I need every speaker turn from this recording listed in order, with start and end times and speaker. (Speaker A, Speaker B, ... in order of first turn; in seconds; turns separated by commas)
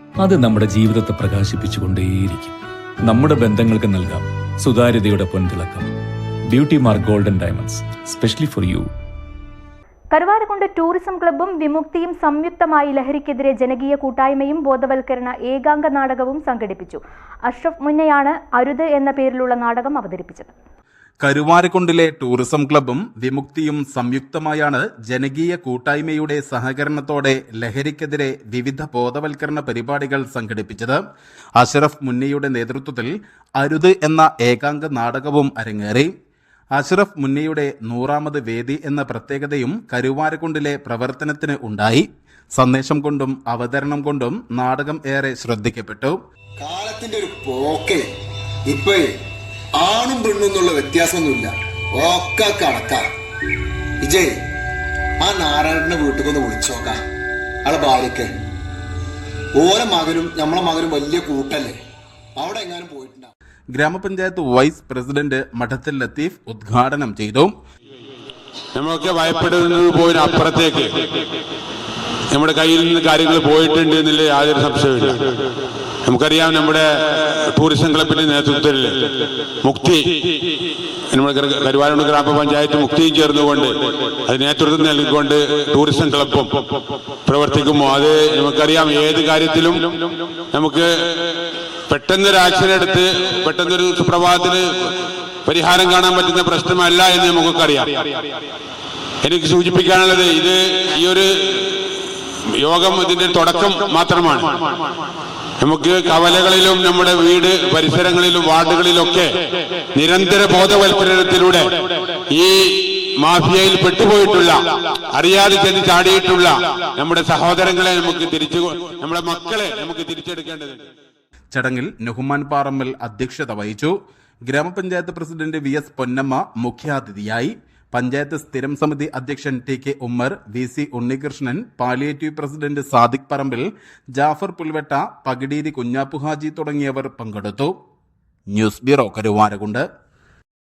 Speaker A: 0.2-5.9, Speaker A: 6.5-8.9, Speaker B: 10.1-20.5, Speaker C: 21.2-31.0, Speaker C: 31.6-36.1, Speaker C: 36.8-46.2, Speaker D: 46.6-48.0, Speaker D: 48.7-49.1, Speaker D: 49.8-53.0, Speaker D: 54.0-54.4, Speaker D: 55.2-57.0, Speaker D: 57.6-58.3, Speaker D: 59.6-61.8, Speaker D: 62.4-63.3, Speaker C: 63.7-67.5, Speaker E: 68.8-70.9, Speaker E: 72.3-75.4, Speaker E: 76.1-80.0, Speaker E: 81.1-86.7, Speaker E: 87.3-91.3, Speaker E: 91.9-94.9, Speaker E: 95.5-98.1, Speaker E: 99.2-101.9, Speaker E: 102.6-104.7, Speaker E: 105.6-109.3, Speaker E: 110.0-111.7, Speaker E: 113.2-114.6, Speaker E: 115.1-120.9, Speaker C: 121.5-123.9, Speaker C: 124.5-137.7, Speaker C: 138.5-139.8